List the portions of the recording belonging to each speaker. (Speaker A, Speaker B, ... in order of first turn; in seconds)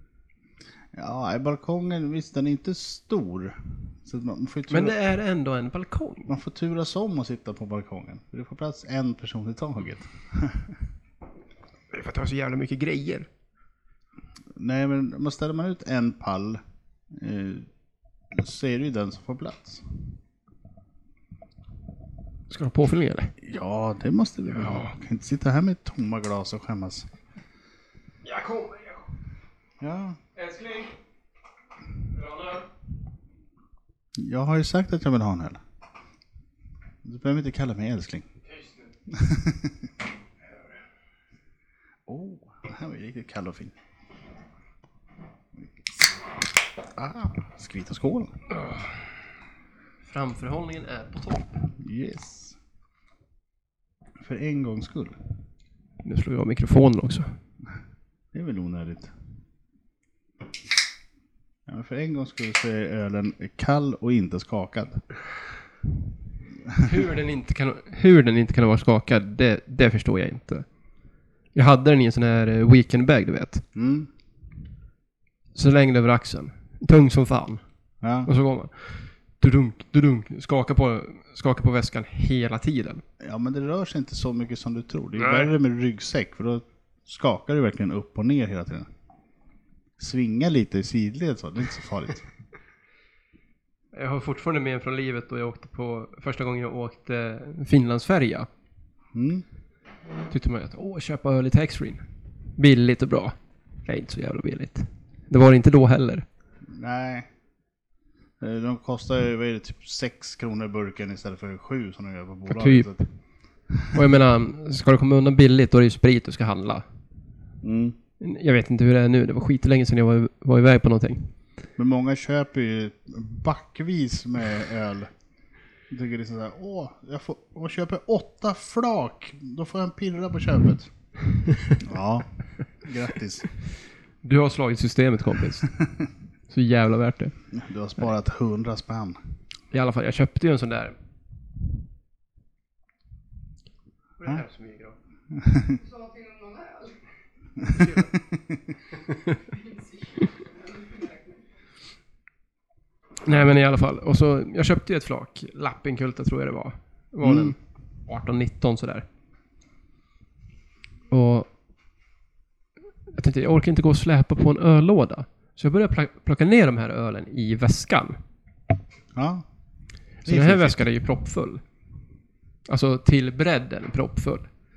Speaker A: 0.9-5.0, 6.3-10.8, 14.6-16.6, 17.1-17.7, 18.3-19.8, 23.4-27.1, 29.8-30.2, 34.2-35.6, 37.0-38.3, 39.1-39.9, 42.1-43.8, 45.6-46.1, 46.8-48.4, 51.8-52.6, 54.2-55.2, 58.3-59.1, 61.7-65.0, 73.8-74.1, 78.0-78.3, 83.2-88.9, 90.0-92.3, 99.1-99.4, 106.7-107.3, 108.4-113.0, 117.6-118.0, 121.8-125.1, 125.9-130.9, 131.8-132.3, 132.8-133.4, 137.5-139.2, 145.3-145.8, 148.0-148.6, 157.2-157.5, 169.1-169.5, 170.2-170.9
Speaker B: 4.7-6.3, 11.9-13.3, 22.5-23.3, 24.6-24.9, 28.2-29.1, 30.4-31.0, 32.1-32.7, 38.5-38.9, 50.0-51.6, 56.0-57.4, 66.8-70.7, 71.5-73.6, 75.5-77.6, 78.2-83.0, 85.2-85.5, 93.9-98.5, 100.3-102.0, 102.6-106.2, 112.5-113.1, 113.9-116.9, 118.2-121.3, 134.2-135.7, 136.5-137.3, 139.7-140.9, 144.2-145.0, 147.6-148.2, 153.2-159.1, 161.1-161.5, 163.1-168.2, 170.3-171.6, 172.7-174.5
Speaker C: 145.7-147.0, 149.5-151.4